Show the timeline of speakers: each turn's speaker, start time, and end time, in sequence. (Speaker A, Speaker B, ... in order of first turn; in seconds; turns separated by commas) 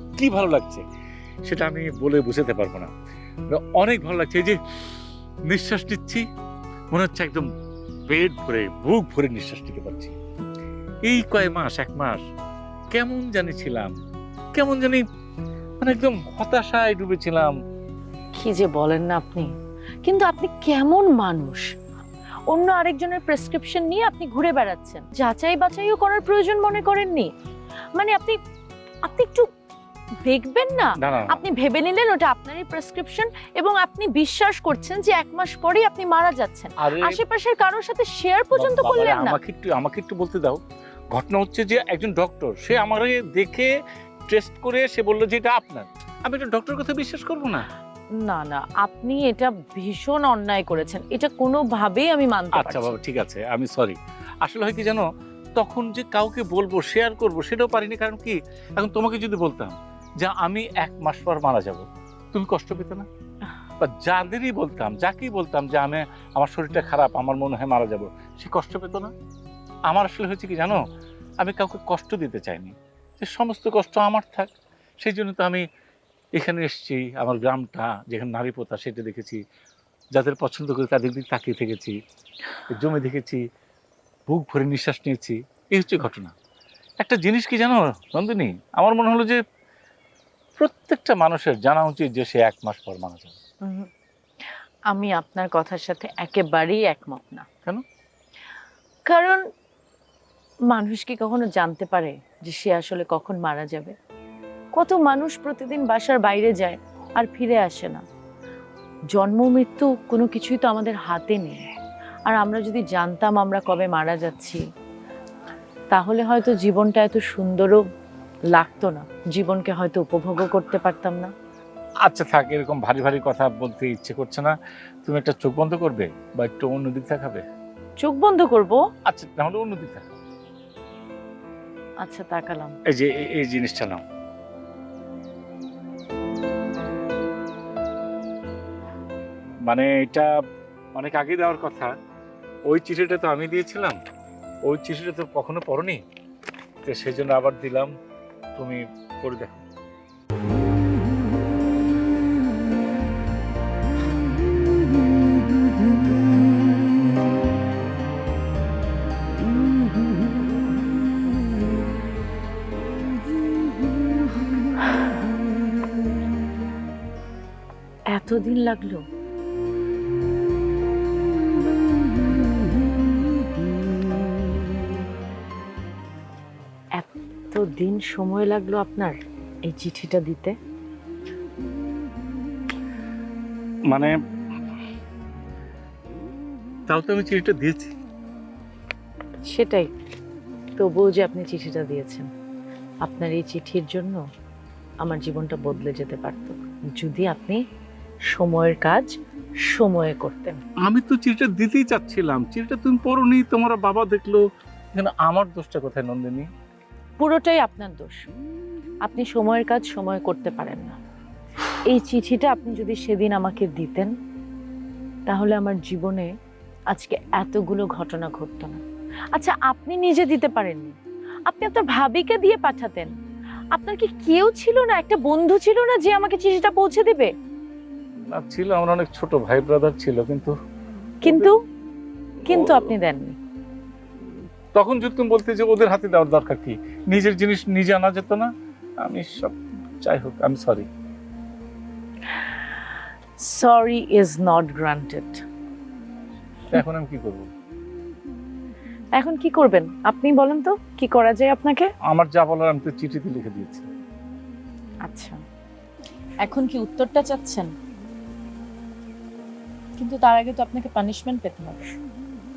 Speaker A: 0.2-0.8, Speaker A: 1.4-2.9, Speaker A: 3.5-4.6, Speaker A: 5.5-6.2, Speaker A: 6.9-7.5, Speaker A: 8.1-10.2, Speaker A: 11.1-12.2, Speaker A: 12.9-14.0, Speaker A: 14.6-15.0, Speaker A: 15.8-17.6, Speaker B: 18.4-19.5, Speaker B: 20.0-21.7, Speaker B: 22.5-27.3, Speaker B: 28.0-28.4, Speaker B: 29.1-29.5, Speaker B: 30.2-39.4, Speaker A: 31.0-31.4, Speaker A: 36.8-37.2, Speaker A: 38.5-40.6, Speaker A: 41.1-43.7, Speaker A: 44.3-47.7, Speaker B: 48.2-53.0, Speaker A: 52.5-55.0, Speaker A: 55.6-63.1, Speaker A: 63.8-69.1, Speaker A: 69.9-70.8, Speaker A: 71.4-74.5, Speaker A: 75.0-75.7, Speaker A: 76.4-79.4, Speaker A: 80.2-82.0, Speaker A: 82.7-83.4, Speaker A: 84.3-86.3, Speaker A: 87.0-89.4, Speaker A: 90.6-93.4, Speaker B: 93.6-93.9, Speaker B: 94.9-97.5, Speaker B: 99.1-99.4, Speaker B: 100.7-104.0, Speaker B: 104.8-108.0, Speaker B: 109.1-111.7, Speaker B: 112.3-114.6, Speaker B: 115.9-117.8, Speaker B: 118.5-121.3, Speaker A: 122.0-127.4, Speaker B: 128.0-128.8, Speaker A: 129.1-130.2, Speaker B: 132.0-132.8, Speaker A: 132.9-134.0, Speaker A: 139.7-140.3, Speaker A: 140.9-141.9, Speaker A: 142.7-144.0, Speaker A: 144.7-146.0, Speaker A: 146.8-147.9, Speaker A: 148.6-149.7, Speaker B: 168.1-169.0, Speaker B: 177.0-179.2, Speaker B: 179.7-180.6, Speaker A: 186.9-187.9, Speaker B: 189.4-189.9, Speaker B: 190.8-192.3, Speaker B: 193.0-194.2, Speaker B: 195.0-197.6, Speaker B: 198.3-199.1, Speaker B: 199.7-200.6, Speaker A: 200.9-204.4, Speaker A: 204.9-206.5, Speaker B: 207.2-208.3, Speaker B: 209.1-211.0, Speaker B: 211.9-214.2, Speaker B: 215.3-216.3, Speaker B: 216.9-218.8, Speaker B: 219.3-221.0, Speaker B: 221.5-223.1, Speaker B: 223.7-227.3, Speaker A: 228.3-230.5, Speaker B: 231.2-231.6, Speaker A: 231.2-231.5, Speaker A: 232.4-232.9, Speaker B: 232.4-233.4, Speaker A: 234.8-238.5, Speaker A: 239.0-240.9, Speaker B: 243.4-245.4, Speaker A: 246.7-247.5, Speaker B: 249.2-251.9, Speaker A: 252.1-253.9, Speaker B: 255.1-255.4, Speaker B: 256.4-257.7, Speaker B: 260.0-262.0